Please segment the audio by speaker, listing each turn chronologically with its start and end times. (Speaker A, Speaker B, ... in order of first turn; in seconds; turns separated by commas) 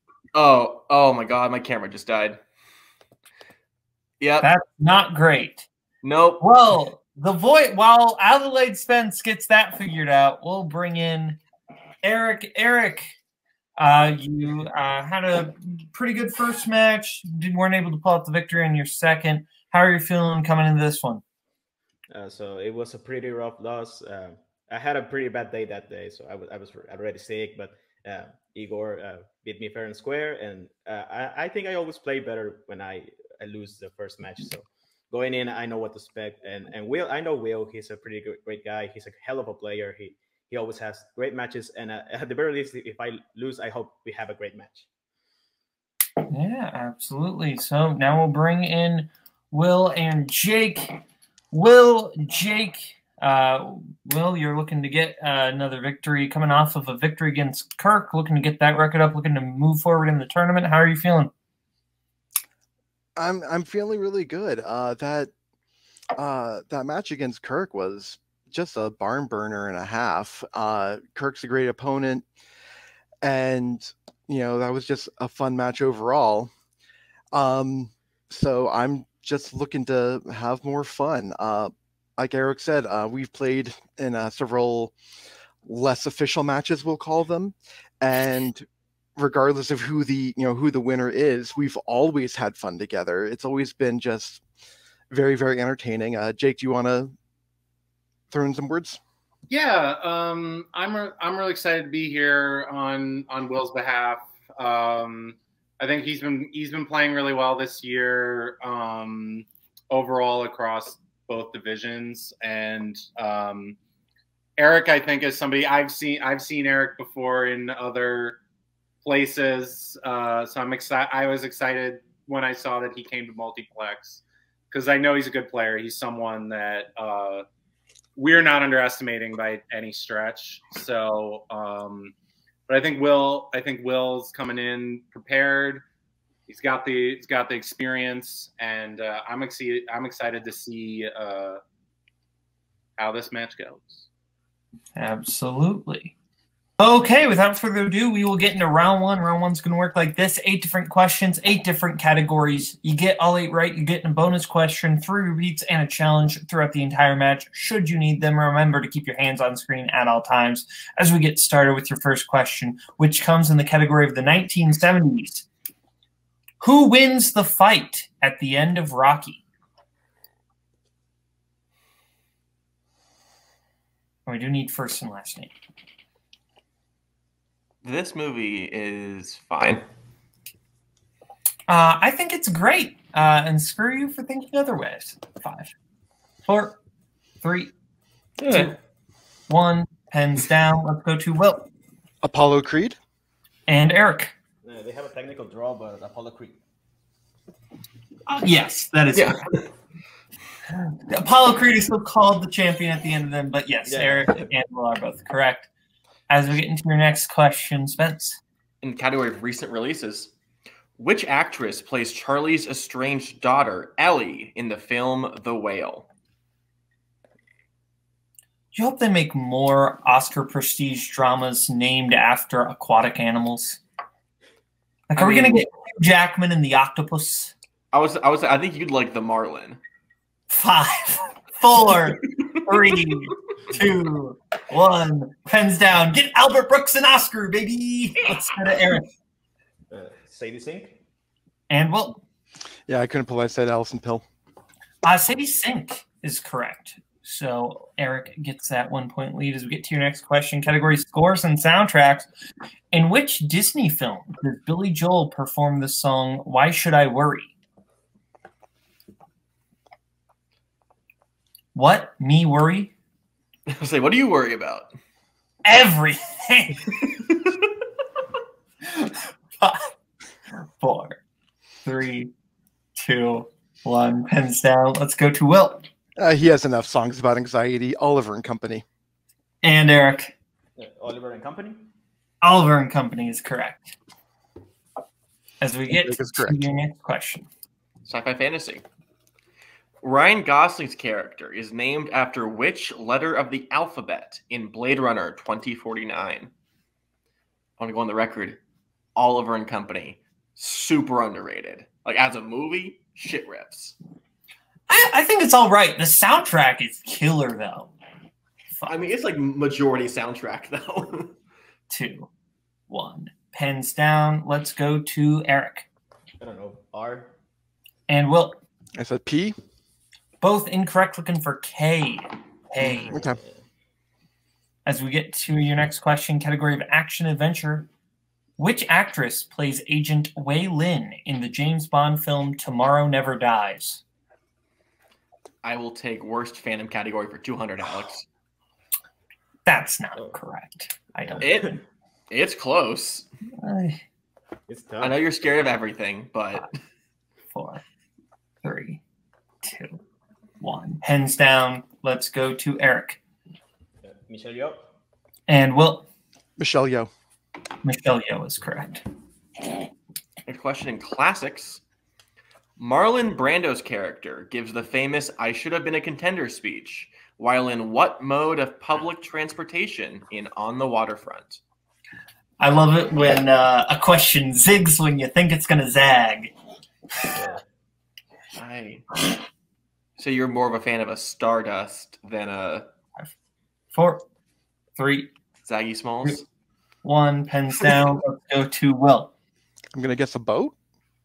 Speaker A: 0.3-2.4, Speaker A: 4.2-4.5, Speaker B: 4.4-5.7, Speaker A: 6.0-6.4, Speaker B: 6.4-11.4, Speaker B: 12.0-13.2, Speaker B: 13.8-21.2, Speaker C: 22.1-44.9, Speaker B: 46.3-51.0, Speaker B: 51.5-61.3, Speaker D: 63.1-65.3, Speaker D: 66.2-72.2, Speaker D: 73.2-76.5, Speaker D: 77.3-84.9, Speaker D: 85.6-88.7, Speaker D: 89.2-94.4, Speaker D: 95.1-97.1, Speaker D: 98.3-99.0, Speaker E: 99.5-113.8, Speaker E: 114.6-118.4, Speaker E: 119.0-127.4, Speaker E: 128.2-132.1, Speaker E: 132.7-135.8, Speaker E: 136.5-141.6, Speaker E: 143.0-144.1, Speaker B: 144.9-146.1, Speaker B: 146.8-165.5, Speaker B: 166.6-169.4, Speaker B: 174.2-175.5, Speaker A: 177.8-179.8, Speaker B: 181.7-185.7, Speaker B: 186.4-186.8, Speaker B: 187.4-187.7, Speaker A: 188.4-188.7, Speaker B: 188.5-188.7, Speaker B: 189.5-191.7, Speaker D: 192.2-193.0, Speaker B: 193.7-194.3, Speaker C: 194.6-196.6, Speaker B: 198.3-199.5, Speaker B: 200.8-205.7, Speaker C: 203.8-204.5, Speaker B: 206.3-208.4, Speaker A: 208.8-210.3, Speaker A: 211.0-216.1, Speaker B: 218.7-223.8, Speaker B: 225.1-227.5, Speaker A: 225.2-225.6, Speaker A: 227.9-229.8, Speaker B: 230.5-239.1, Speaker C: 239.9-241.0, Speaker B: 241.7-242.2, Speaker D: 242.9-244.2, Speaker B: 245.0-252.3, Speaker B: 252.9-257.5, Speaker B: 261.7-262.9, Speaker A: 263.7-264.9, Speaker B: 265.6-267.0, Speaker B: 268.8-269.9, Speaker B: 270.5-271.2, Speaker B: 271.8-272.3, Speaker B: 272.9-275.9, Speaker D: 276.2-278.8, Speaker B: 279.6-280.3, Speaker C: 280.8-281.9, Speaker B: 282.4-283.9, Speaker B: 285.6-287.5, Speaker D: 285.9-286.6, Speaker A: 288.0-288.8, Speaker A: 290.0-296.5, Speaker A: 297.8-298.6, Speaker A: 299.1-303.9, Speaker B: 304.9-307.9, Speaker B: 308.7-309.0, Speaker A: 308.9-311.3, Speaker B: 311.9-312.3, Speaker B: 312.9-315.9, Speaker C: 316.4-317.3, Speaker B: 318.1-318.6, Speaker D: 318.9-319.6, Speaker B: 320.4-323.1, Speaker C: 322.8-323.6, Speaker D: 323.1-323.4, Speaker B: 324.9-327.9, Speaker B: 328.6-334.0, Speaker A: 335.6-338.2, Speaker B: 339.6-341.4, Speaker C: 341.2-341.8, Speaker A: 341.4-341.8, Speaker A: 342.3-343.3, Speaker B: 343.6-344.0, Speaker C: 344.7-345.2, Speaker A: 345.0-346.8, Speaker B: 347.5-347.8, Speaker B: 348.6-349.0, Speaker B: 349.6-350.0, Speaker B: 350.6-353.2, Speaker C: 354.0-354.8, Speaker B: 355.5-356.1, Speaker D: 356.6-357.1, Speaker B: 357.8-359.0, Speaker A: 360.4-361.8, Speaker A: 362.8-371.6, Speaker B: 372.6-376.5, Speaker C: 377.4-377.6, Speaker A: 378.5-379.1, Speaker A: 380.2-382.9, Speaker B: 383.9-384.2, Speaker B: 385.0-385.3, Speaker A: 385.6-386.4, Speaker B: 387.0-389.3, Speaker D: 389.9-390.7